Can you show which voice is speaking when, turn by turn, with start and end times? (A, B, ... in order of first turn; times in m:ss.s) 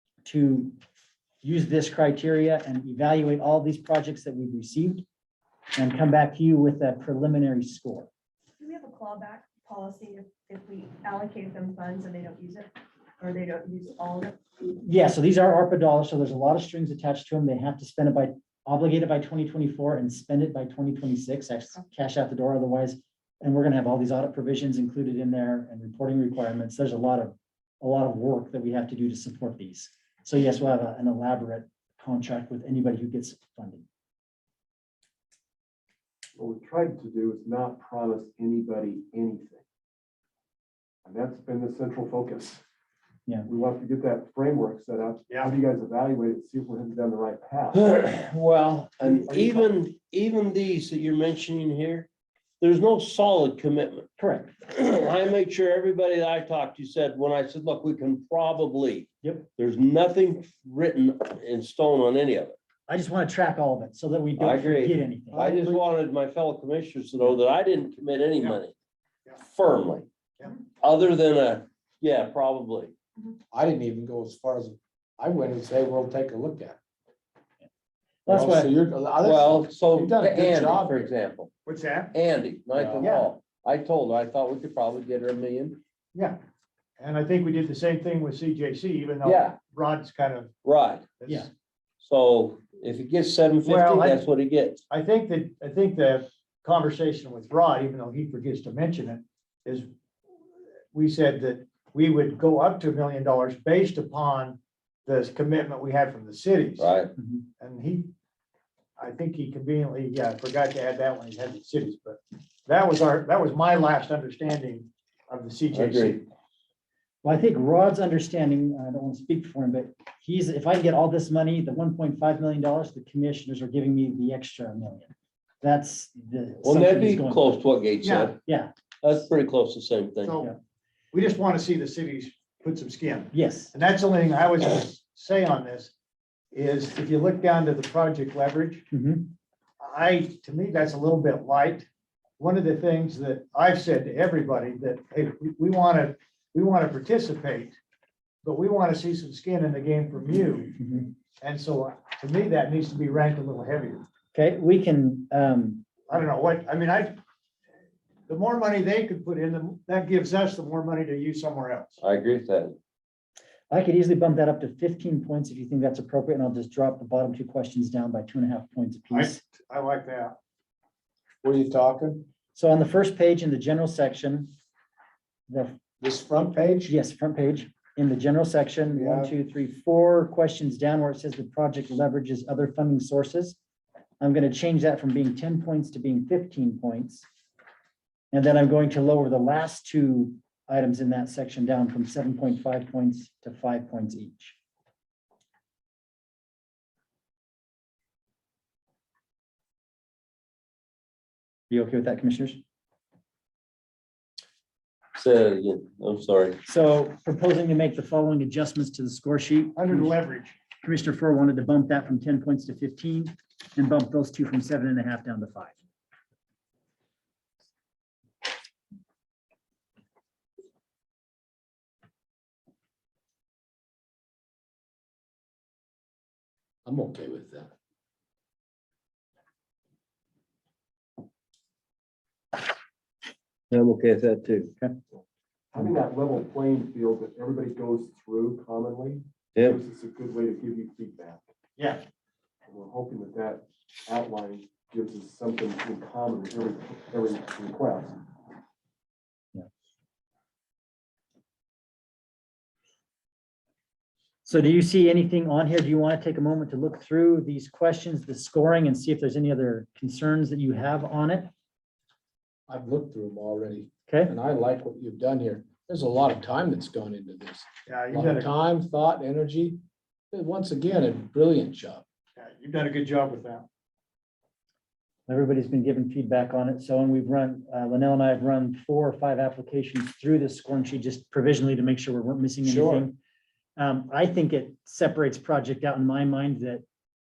0:00.2-0:00.8 A
0:01.4-0:05.0 A
0:05.8-0:08.1 A
0:08.6-0:14.8 B
0:14.8-0:33.8 A
0:36.4-0:39.6 C
0:41.0-0:42.6 C
0:43.4-0:47.9 C
0:47.7-0:52.1 D
0:52.6-0:54.1 D
0:54.2-0:54.6 A
0:54.7-1:02.6 D
0:59.2-0:59.5 A
1:02.9-1:05.4 A
1:04.4-1:08.7 D
1:09.4-1:10.1 D
1:10.8-1:12.9 D
1:13.5-1:16.8 E
1:18.2-1:18.7 A
1:18.2-1:21.1 E
1:19.2-1:21.5 D
1:21.6-1:22.1 F
1:22.1-1:25.8 D
1:23.0-1:23.3 F
1:26.1-1:26.4 F
1:27.0-1:30.5 F
1:29.2-1:29.6 D
1:30.6-1:31.1 D
1:31.2-1:31.5 F
1:32.0-1:34.8 D
1:33.6-1:34.2 F
1:34.9-1:39.9 F
1:40.9-1:46.9 F
1:46.8-1:47.1 D
1:47.2-1:47.4 A
1:47.6-1:48.1 F
1:49.0-1:56.2 F
1:55.7-1:56.2 D
1:57.2-2:07.6 A
2:06.6-2:08.4 D
2:08.0-2:08.4 F
2:08.4-2:08.7 A
2:09.0-2:10.4 D
2:10.2-2:10.5 F
2:11.1-2:15.9 F
2:13.3-2:13.7 A
2:16.5-2:18.8 F
2:18.9-2:19.3 A
2:19.8-2:21.9 F
2:22.4-2:27.8 F
2:28.4-2:30.8 F
2:30.8-2:31.1 A
2:31.4-2:34.0 F
2:34.3-2:35.8 A
2:36.1-2:37.2 F
2:38.3-2:42.0 F
2:42.0-2:42.8 D
2:43.7-2:49.4 A
2:49.1-2:50.4 F
2:51.4-2:52.3 E
2:52.5-2:54.5 A
2:55.5-2:55.8 A
2:56.0-2:56.9 E
2:56.9-3:03.6 A
2:59.0-2:59.3 E
3:04.2-3:07.2 A
3:08.3-3:14.6 A
3:21.7-3:22.6 A
3:25.1-3:26.6 D
3:26.6-3:30.1 A
3:29.8-3:30.6 F
3:30.8-3:35.8 A
3:46.8-3:47.7 E
3:53.7-3:54.7 D
3:55.7-4:01.4 C
3:59.5-3:59.8 D
4:01.8-4:02.0 F
4:02.7-4:08.2 C
4:14.4-4:21.5 A
4:22.7-4:29.8 E
4:24.1-4:24.3 A
4:27.9-4:28.5 F
4:30.3-4:32.0 E
4:32.4-4:33.6 F
4:35.3-4:43.2 A
4:42.6-4:43.1 E
4:43.8-4:46.8 A